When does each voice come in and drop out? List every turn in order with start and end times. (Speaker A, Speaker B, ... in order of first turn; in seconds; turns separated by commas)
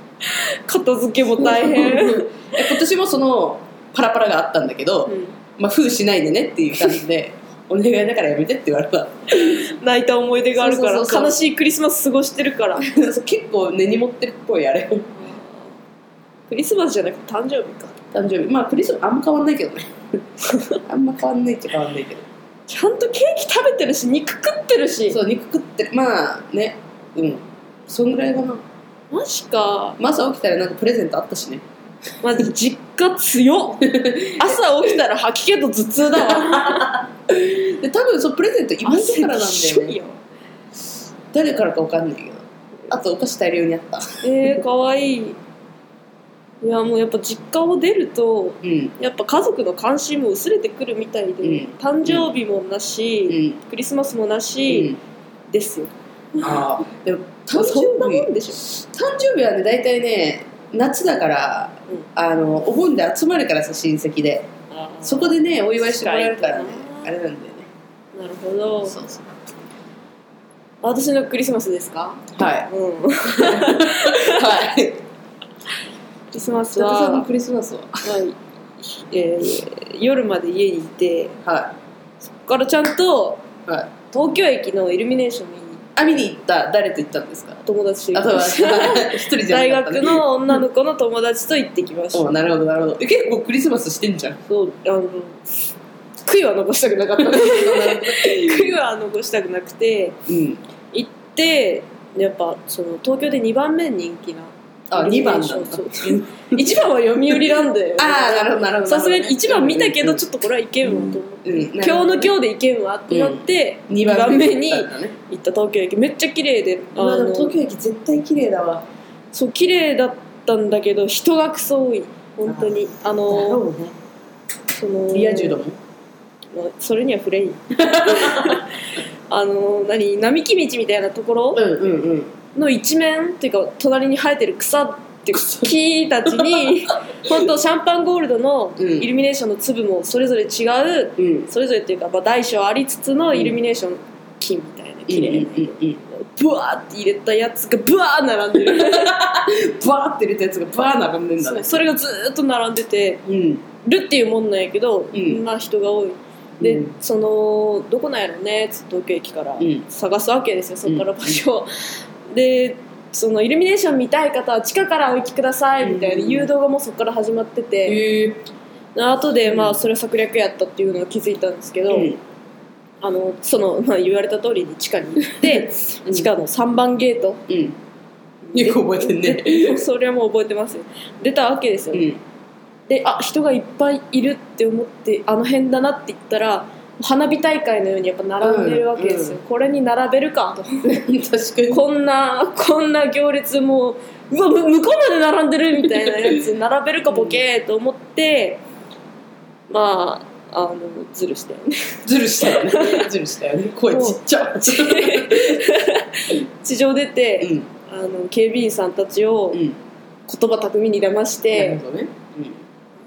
Speaker A: 0.2-2.8, Speaker B: 1.4-9.6, Speaker A: 5.1-5.4, Speaker A: 9.3-12.8, Speaker B: 10.6-11.4, Speaker B: 12.8-15.1, Speaker A: 15.2-15.7, Speaker A: 16.5-18.0, Speaker B: 18.1-19.9, Speaker B: 20.9-22.2, Speaker A: 22.7-25.2, Speaker B: 25.1-28.6, Speaker A: 29.1-30.0, Speaker B: 30.0-31.6, Speaker A: 32.2-33.8, Speaker B: 33.8-34.6, Speaker A: 34.4-36.9, Speaker B: 36.2-40.0, Speaker A: 38.9-40.2, Speaker B: 41.3-44.2, Speaker A: 44.2-45.4, Speaker A: 46.6-54.9, Speaker B: 48.6-48.9, Speaker B: 51.4-52.3, Speaker B: 53.3-53.6, Speaker B: 54.7-55.0, Speaker A: 55.5-56.7, Speaker B: 56.4-64.5, Speaker A: 57.5-58.6, Speaker A: 64.7-67.1, Speaker B: 65.0-67.7, Speaker A: 68.2-69.0, Speaker B: 68.9-69.3, Speaker A: 70.8-74.6, Speaker B: 72.3-72.7, Speaker B: 73.3-75.0, Speaker A: 76.3-77.3, Speaker B: 76.7-78.1, Speaker A: 78.0-81.3, Speaker B: 81.4-81.7, Speaker A: 82.3-83.5, Speaker B: 83.7-83.9, Speaker A: 84.1-85.8, Speaker B: 86.0-90.2, Speaker A: 87.7-92.3, Speaker B: 92.1-94.4, Speaker A: 94.5-95.6, Speaker A: 96.2-100.2, Speaker B: 97.2-98.7, Speaker B: 100.3-100.6, Speaker A: 100.9-117.6, Speaker B: 104.9-106.6, Speaker B: 108.0-110.2, Speaker B: 110.8-112.3, Speaker B: 113.1-115.1, Speaker B: 117.0-118.8, Speaker A: 119.3-123.7, Speaker B: 122.5-124.0, Speaker A: 124.8-125.6, Speaker B: 125.1-125.8, Speaker A: 126.5-128.7, Speaker B: 127.8-128.6, Speaker A: 129.3-131.6, Speaker B: 131.6-132.3, Speaker A: 132.6-149.2, Speaker B: 135.3-135.7, Speaker B: 136.3-136.7, Speaker B: 138.8-139.1, Speaker B: 141.2-141.5, Speaker B: 145.1-146.0, Speaker B: 148.6-151.8, Speaker A: 151.4-153.2, Speaker B: 153.3-153.6, Speaker A: 153.8-168.0, Speaker B: 155.1-155.4, Speaker B: 156.6-156.9, Speaker B: 159.6-159.8, Speaker B: 160.9-161.4, Speaker B: 165.8-166.5, Speaker B: 167.8-168.4, Speaker A: 168.9-172.1, Speaker B: 169.4-169.8, Speaker B: 171.9-172.2, Speaker A: 173.0-177.4, Speaker B: 175.4-176.3, Speaker B: 177.5-177.8, Speaker A: 178.5-182.1, Speaker B: 178.5-179.8, Speaker B: 181.9-182.2, Speaker A: 182.9-190.9, Speaker B: 188.4-189.4, Speaker B: 190.8-191.8, Speaker A: 191.7-198.6, Speaker B: 197.1-197.4, Speaker A: 199.7-203.1, Speaker B: 202.1-205.6, Speaker A: 203.9-209.6, Speaker B: 207.4-207.7, Speaker A: 210.3-211.8, Speaker B: 211.5-212.6